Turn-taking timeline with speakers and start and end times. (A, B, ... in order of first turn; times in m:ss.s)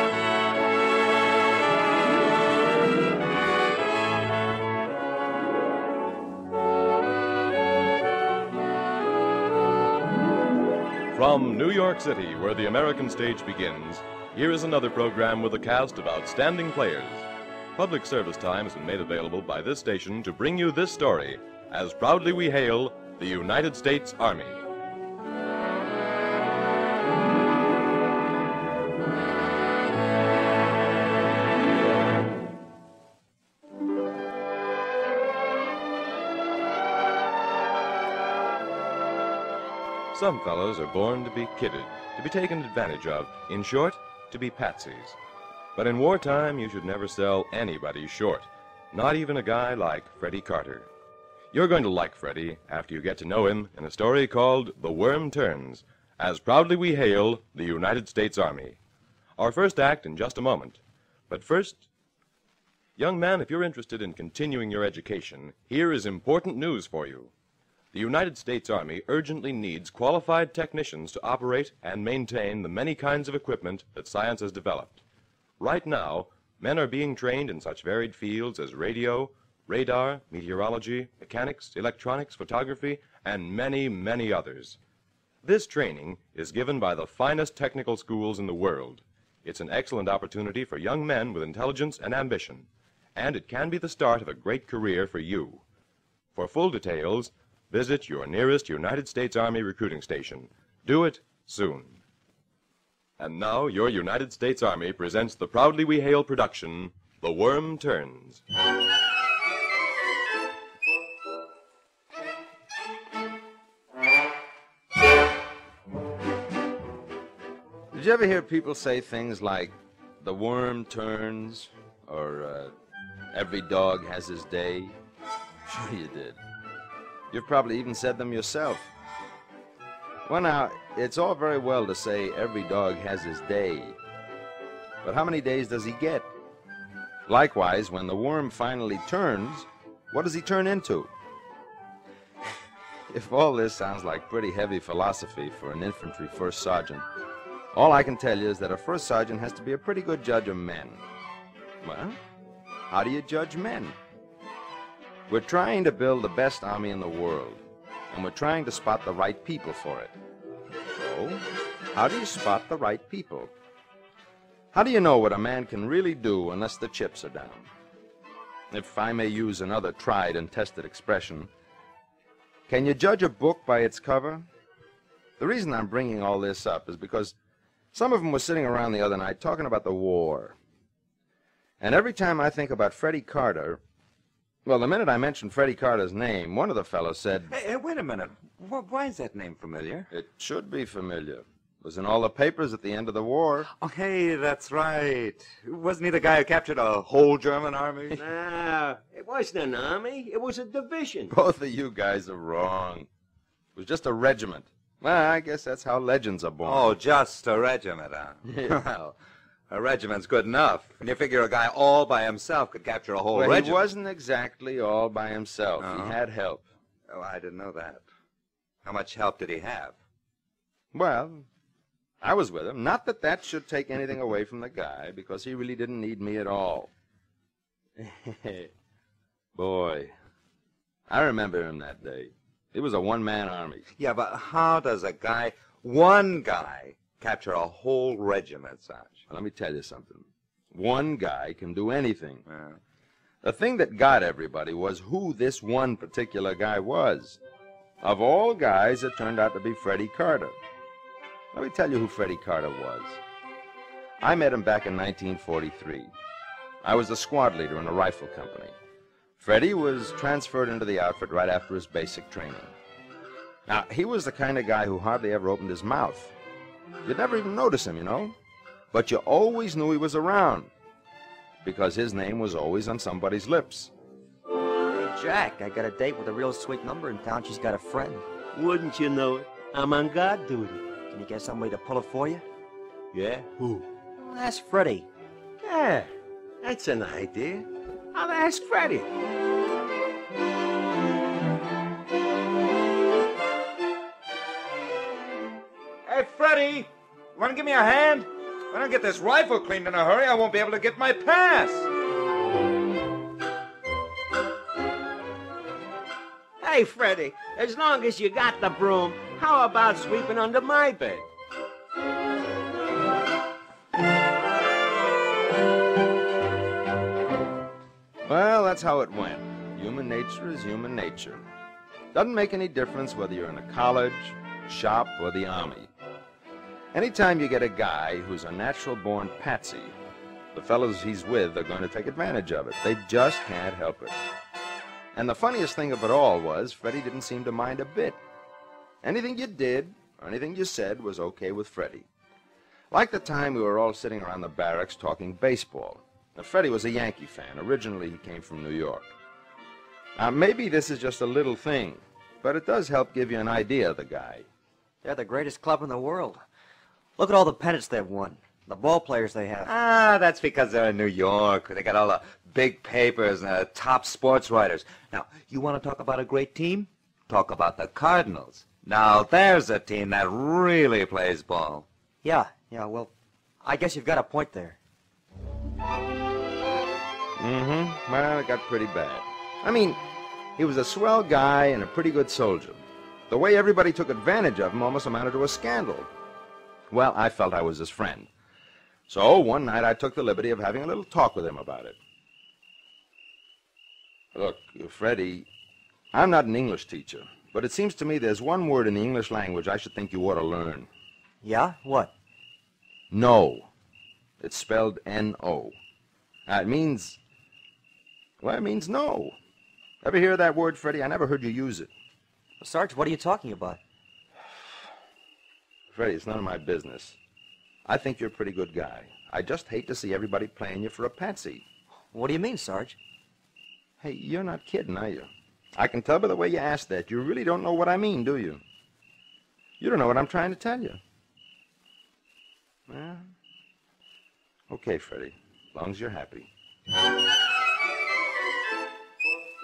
0:11.1-0:24.6 A
0:40.1-0:45.2 A
0:45.8-0:50.9 A
0:51.5-0:58.8 A
0:59.4-1:01.8 A
1:03.0-1:07.3 A
1:07.9-1:15.0 A
1:15.6-1:24.8 A
1:25.4-1:35.6 A
1:36.4-1:42.0 A
1:43.2-1:48.4 A
1:57.9-2:02.7 B
2:03.3-2:05.0 B
2:05.7-2:06.4 B
2:07.3-2:08.9 B
2:10.3-2:14.0 B
2:15.0-2:16.3 B
2:17.3-2:21.1 B
2:23.1-2:27.0 B
2:27.7-2:31.0 B
2:31.8-2:32.2 B
2:32.9-2:34.0 B
2:35.3-2:40.1 B
2:40.9-2:43.5 B
2:44.7-2:47.7 B
2:48.7-2:51.5 B
2:52.7-2:54.5 B
2:55.4-2:57.4 B
2:57.9-3:00.6 B
3:01.8-3:03.8 B
3:04.6-3:07.5 B
3:07.5-3:10.1 C
3:10.1-3:13.7 B
3:13.8-3:18.2 C
3:18.2-3:21.3 D
3:21.3-3:23.1 B
3:23.8-3:26.9 B
3:26.6-3:29.1 C
3:28.4-3:28.9 B
3:29.7-3:33.8 C
3:33.3-3:36.6 B
3:35.8-3:36.2 C
3:37.1-3:38.0 C
3:38.8-3:40.0 C
3:40.9-3:41.5 B
3:42.2-3:46.9 B
3:48.0-3:48.7 B
3:49.6-3:50.2 B
3:51.1-3:53.9 B
3:54.0-3:59.2 C
3:59.3-4:02.4 B
4:02.5-4:02.8 C
4:03.4-4:07.4 B
4:08.0-4:10.6 B
4:11.5-4:13.2 B
4:14.2-4:16.1 B
4:16.8-4:18.8 B
4:19.4-4:22.7 B
4:23.7-4:26.3 B
4:27.0-4:28.4 B
4:28.9-4:30.7 B
4:31.6-4:33.9 B
4:34.9-4:38.2 E
4:38.5-4:40.8 D
4:41.1-4:42.4 E
4:43.1-4:43.8 D
4:44.2-4:45.1 E
4:45.6-4:46.1 D
4:46.6-4:49.1 D
4:56.1-4:56.8 B
4:57.4-5:01.8 B
5:06.6-5:11.3 D
5:18.2-5:21.4 B
5:22.1-5:25.9 B
5:26.9-5:30.0 B
5:30.5-5:34.2 B
5:35.2-5:38.2 B
5:39.0-5:42.1 B
5:42.9-5:49.1 B
5:50.2-5:54.5 B
5:55.0-5:56.4 E
5:57.2-5:59.7 E
5:59.6-6:11.9 C
6:12.2-6:13.1 E
6:13.6-6:14.8 E
6:17.4-6:20.0 B
6:20.6-6:26.1 B
6:26.9-6:28.3 B
6:29.1-6:32.0 B
6:34.3-6:35.5 B
6:36.1-6:40.9 B
6:41.4-6:42.1 E
6:43.1-6:43.7 B
6:44.4-6:45.8 B
6:46.5-6:47.2 B
6:48.4-6:49.4 B
6:50.0-6:51.9 B
6:52.6-6:53.8 E
6:55.9-6:57.2 B
6:57.9-7:01.6 B
7:02.1-7:03.0 E
7:04.0-7:08.6 B
7:09.8-7:11.0 B
7:12.9-7:13.3 B
7:14.7-7:16.5 B